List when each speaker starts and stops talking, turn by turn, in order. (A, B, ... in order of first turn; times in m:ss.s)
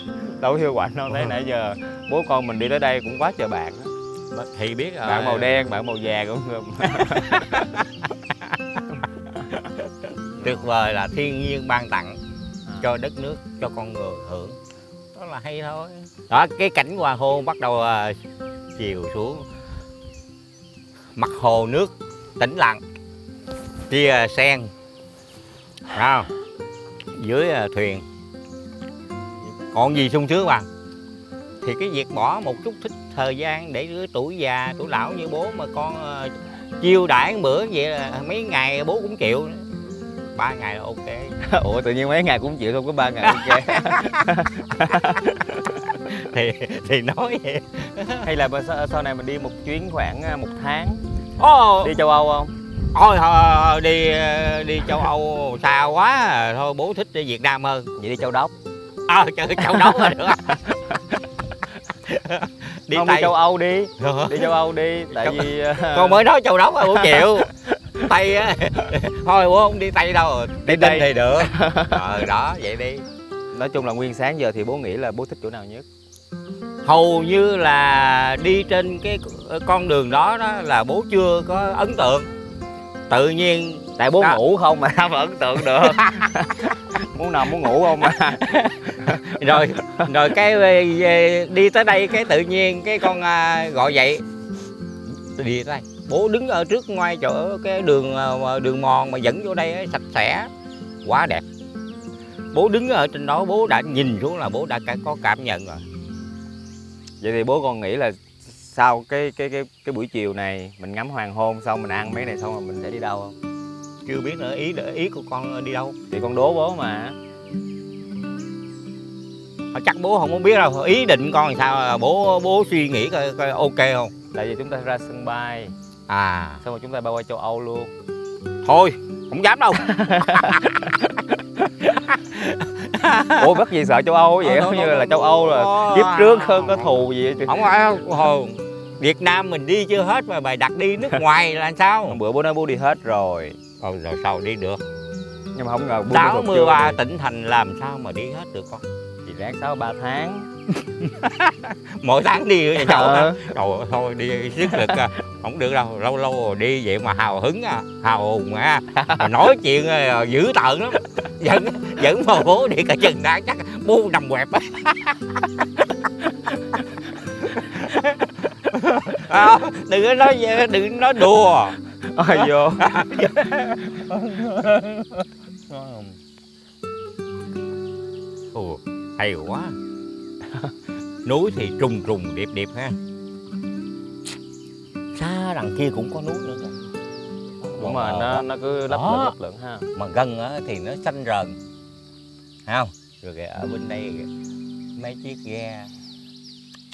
0:00.4-0:03.9 A
0:04.3-0:05.5 B
0:05.0-0:07.6 A
0:07.0-0:07.8 B
0:10.4-0:12.2 B
0:12.8-0:14.6 B
0:15.1-0:18.2 B
0:18.8-0:19.4 B
0:21.2-0:22.8 B
0:23.9-0:24.7 B
0:25.9-0:26.3 B
0:27.2-0:28.0 B
0:29.7-0:30.7 B
0:31.6-0:39.6 B
0:40.4-0:41.3 B
0:41.4-0:45.2 A
0:43.3-0:44.3 B
0:45.0-0:48.3 B
0:48.2-0:51.0 A
0:51.4-0:51.9 B
0:51.8-0:52.5 A
0:52.9-0:57.9 B
0:58.0-0:58.5 A
0:59.1-1:00.6 B
1:02.0-1:03.3 B
1:02.9-1:06.2 A
1:04.0-1:04.5 B
1:05.1-1:13.0 B
1:10.6-1:12.0 A
1:13.5-1:15.8 A
1:16.8-1:22.3 B
1:23.1-1:24.4 B
1:24.0-1:30.0 A
1:25.8-1:26.2 B
1:28.6-1:34.2 B
1:35.3-1:40.5 B
1:41.0-1:41.4 B
1:42.5-1:45.8 B
1:47.2-1:53.3 A
1:54.0-1:55.9 B
1:56.1-1:57.2 A
1:59.7-2:04.1 B
2:04.3-2:05.7 A
2:06.1-2:06.6 B
2:06.6-2:07.9 A
2:08.6-2:11.1 B
2:10.0-2:10.5 A
2:11.6-2:13.6 B
2:13.4-2:17.7 A
2:14.4-2:22.2 B
2:22.1-2:23.6 A
2:23.8-2:24.8 B
2:25.5-2:27.0 A
2:26.0-2:28.8 B
2:29.2-2:30.5 A
2:31.0-2:45.8 B
2:32.8-2:33.5 A
2:39.0-2:39.3 A
2:47.4-2:51.8 B
2:52.0-2:52.8 A
2:52.4-2:56.2 B
2:58.5-2:59.7 B
3:01.2-3:03.0 B
3:05.1-3:06.8 B
3:07.6-3:09.8 A
3:07.8-3:09.3 B
3:09.9-3:11.6 B
3:12.7-3:14.3 B
3:15.0-3:15.9 B